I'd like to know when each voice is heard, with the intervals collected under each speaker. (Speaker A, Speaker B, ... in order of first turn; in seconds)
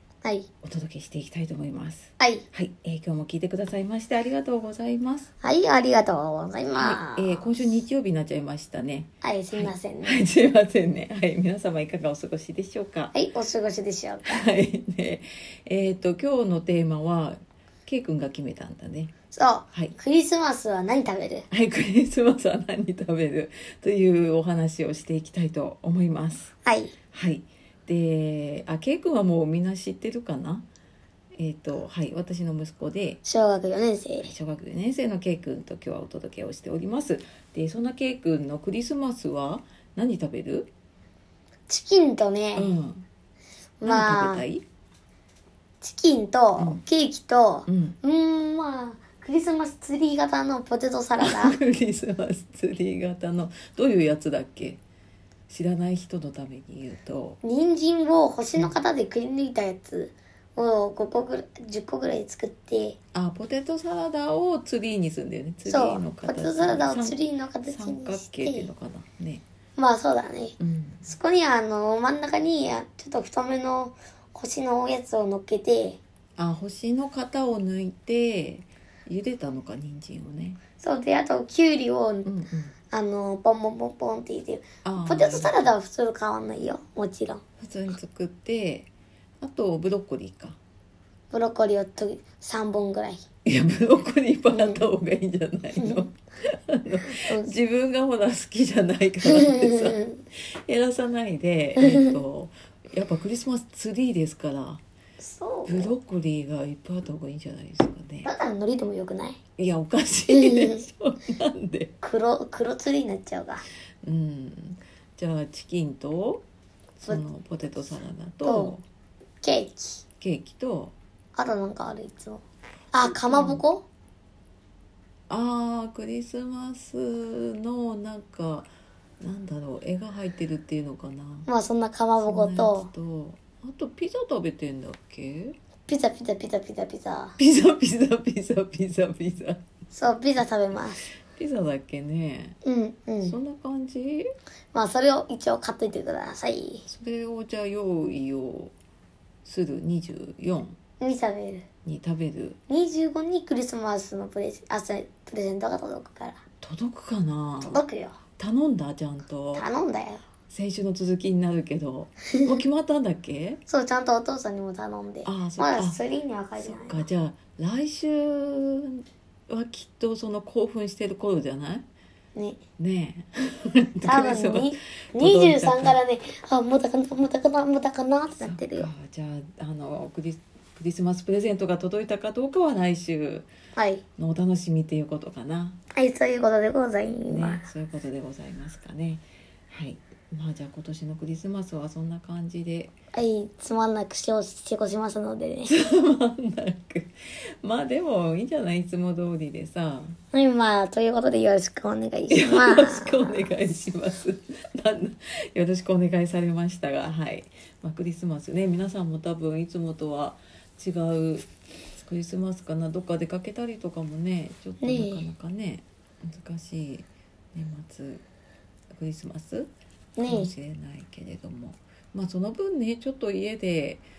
Speaker A: 0.2-0.5, 2.2-2.4, 5.4-7.5, 9.2-10.2, 13.1-14.5, 19.3-21.5, 26.6-26.9, 33.2-34.3, 41.7-42.7, 43.8-44.5, 45.8-51.6, 57.4-63.0, 65.7-68.7, 69.8-76.0, 80.8-82.3, 82.9-87.4, 91.3-93.2, 94.5-94.8, 95.8-96.1, 97.1-97.5, 99.2-100.2, 101.8-102.1, 105.2-106.0, 108.2-109.4, 110.3-110.8, 112.0-113.7, 118.4-118.8, 119.4-120.0, 121.3-123.8, 131.5-132.9, 135.9-137.3, 139.9-141.1, 142.6-143.4, 144.7-146.9, 151.0-151.7, 152.7-156.4, 157.6-158.2, 159.5-160.2, 163.7-167.1, 172.3-172.6, 174.0-178.9, 183.8-184.0, 185.9-187.6, 193.1-195.8, 200.3-203.4, 214.8-215.3, 220.2-220.5
Speaker B: 0.6-5.3, 6.8-13.1, 14.3-19.1, 21.5-26.5, 27.1-30.6, 31.3-33.2, 34.2-40.7, 42.6-43.1, 43.8-44.6, 47.7-48.0, 51.2-54.8, 55.5-57.4, 63.1-69.4, 70.6-71.1, 76.4-80.6, 82.2-82.7, 84.8-85.7, 87.6-88.9, 89.4-90.6, 93.5-104.8, 105.7-108.3, 109.6-111.9, 114.0-116.4, 117.0-118.8, 120.2-121.0, 123.2-123.6, 125.3-128.7, 129.2-131.5, 132.2-135.6, 137.4-139.6, 141.3-142.6, 143.2-144.3, 146.9-148.7, 149.4-150.8, 151.8-152.6, 156.6-157.8, 158.4-159.7, 160.5-163.6, 165.2-166.0, 166.6-171.8, 172.8-176.0, 178.4-183.5, 184.2-185.8, 187.3-192.9, 195.7-197.1, 197.6-200.2, 202.3-218.2, 218.9-219.7, 220.2-224.1